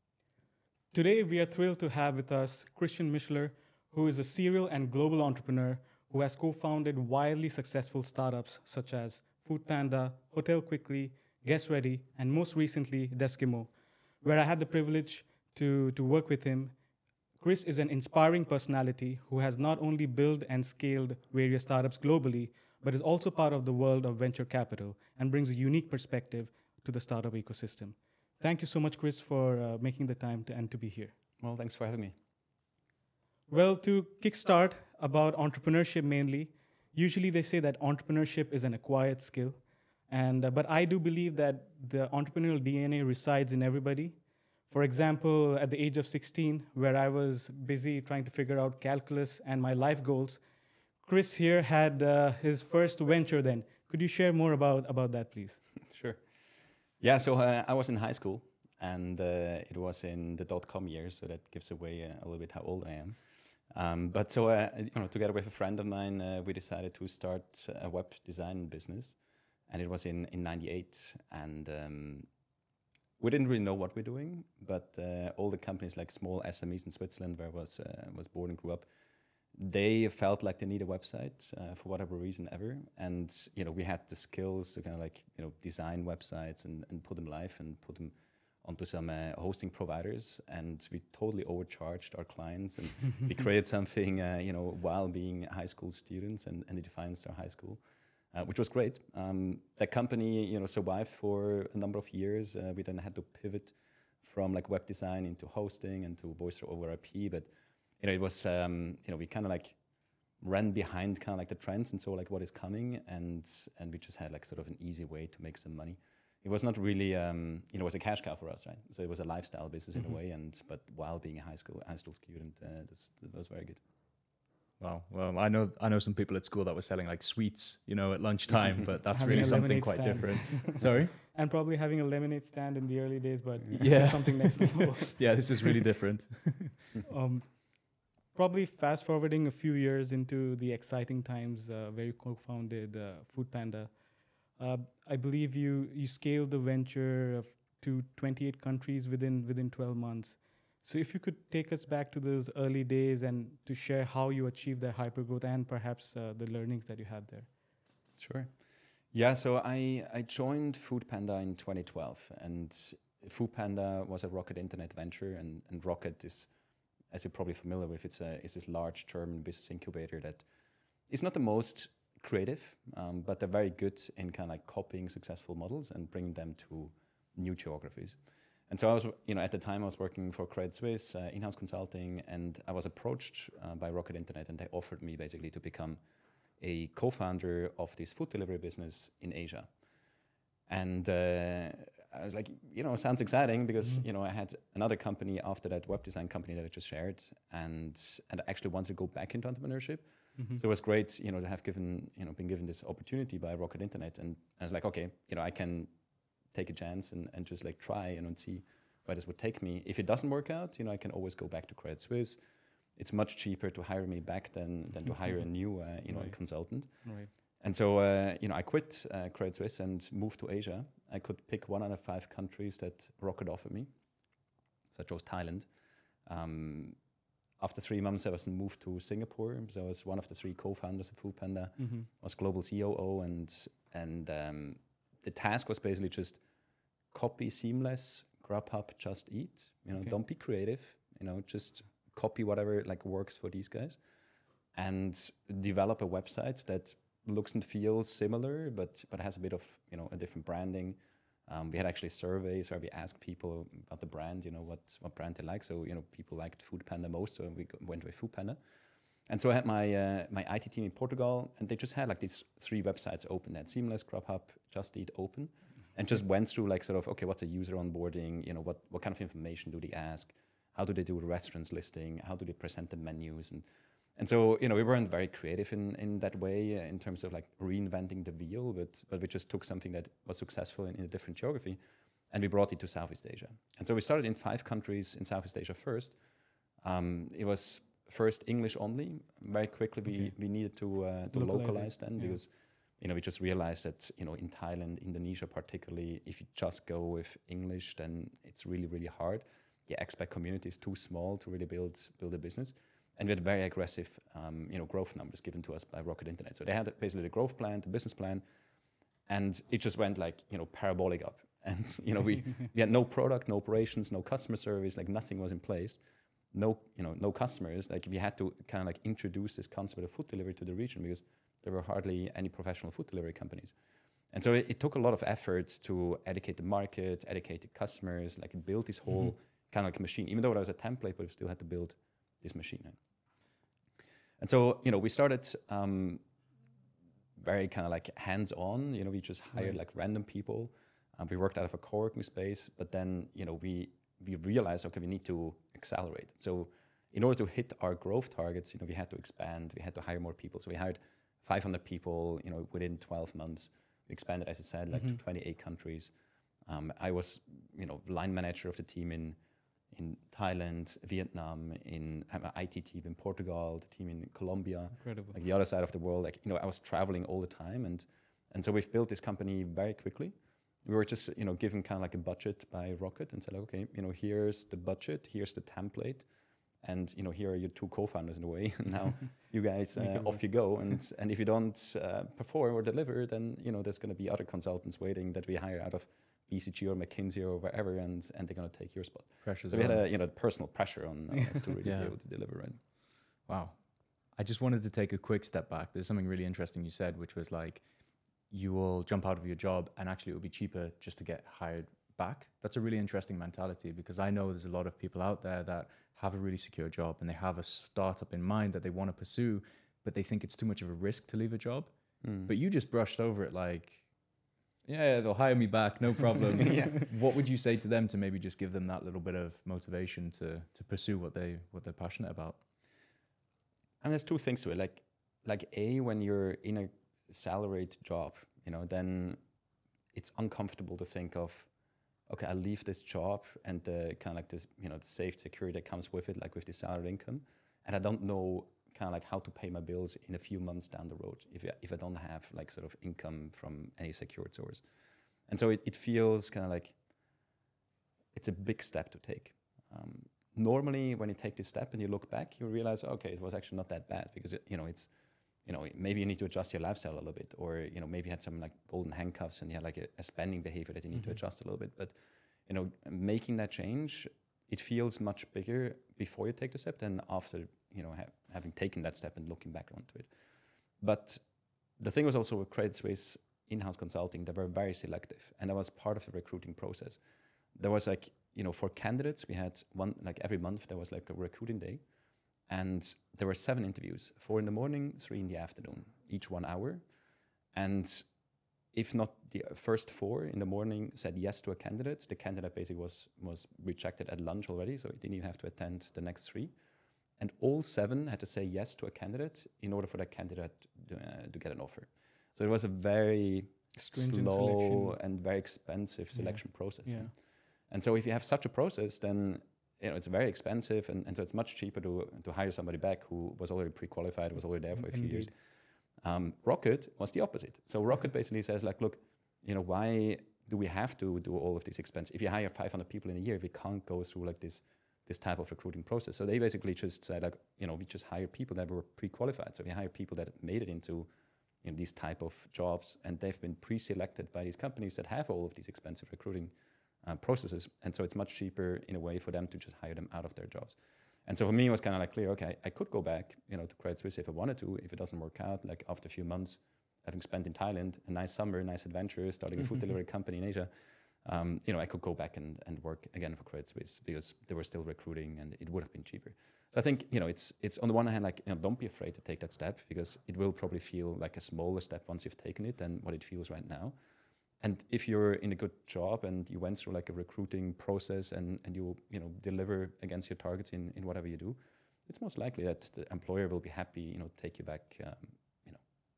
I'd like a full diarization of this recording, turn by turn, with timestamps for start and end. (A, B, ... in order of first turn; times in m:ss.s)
0:00.9-0:16.8 A
0:17.4-0:31.2 A
0:31.4-0:32.2 B
0:33.5-0:50.4 A
0:51.0-0:55.6 A
0:55.9-0:56.2 B
0:57.0-1:09.2 B
1:09.7-1:12.3 B
1:13.2-1:18.9 B
1:19.5-1:37.8 B
1:38.3-1:47.5 B
1:48.0-1:49.8 B
1:50.4-2:03.8 B
2:04.8-2:11.2 C
2:09.1-2:15.8 A
2:13.8-2:16.9 C
2:17.1-2:37.5 A
2:38.2-2:38.5 B
2:39.1-2:46.5 B
2:47.1-2:50.4 B
2:51.1-2:58.2 B
2:58.7-3:06.0 B
3:06.6-3:09.7 B
3:10.7-3:25.9 B
3:20.4-3:20.6 A
3:26.5-3:32.4 B
3:33.0-3:43.9 B
3:36.1-3:36.4 A
3:37.0-3:37.3 A
3:44.9-3:45.7 B
3:46.3-3:47.0 B
3:47.6-3:56.4 B
3:51.8-3:52.1 A
3:57.1-4:04.0 B
4:04.7-4:18.6 B
4:19.3-4:33.6 B
4:34.2-4:41.8 B
4:42.3-4:46.1 B
4:46.8-5:08.4 B
4:51.3-4:52.4 A
5:09.3-5:16.0 B
5:16.5-5:23.7 B
5:24.3-5:33.0 B
5:34.4-5:36.2 B
5:37.4-5:56.1 B
5:56.7-5:59.4 B
5:59.9-6:16.3 B
6:05.0-6:05.4 A
6:16.8-6:32.8 B
6:20.0-6:20.4 A
6:29.4-6:30.0 C
6:31.8-6:32.1 C
6:33.5-6:33.8 C
6:34.3-6:37.8 C
6:38.5-6:54.1 C
6:52.2-6:52.5 B
6:54.9-7:02.6 C
6:56.6-6:57.0 B
7:04.0-7:09.4 B
7:10.1-7:11.7 B
7:12.3-7:24.8 B
7:25.5-7:27.0 B
7:28.3-7:35.1 B
7:35.6-7:42.1 B
7:42.7-7:50.3 B
7:51.0-7:51.4 B
7:52.0-7:57.2 B
7:57.8-8:02.0 B
8:02.7-8:07.0 B
8:07.7-8:08.3 B
8:08.9-8:16.7 B
8:17.4-8:27.3 B
8:24.0-8:25.2 A
8:26.4-8:27.3 A
8:27.9-8:35.6 B
8:35.0-8:35.5 A
8:36.2-8:51.3 B
8:51.8-9:10.9 B
9:11.4-9:24.2 B
9:24.8-9:36.0 B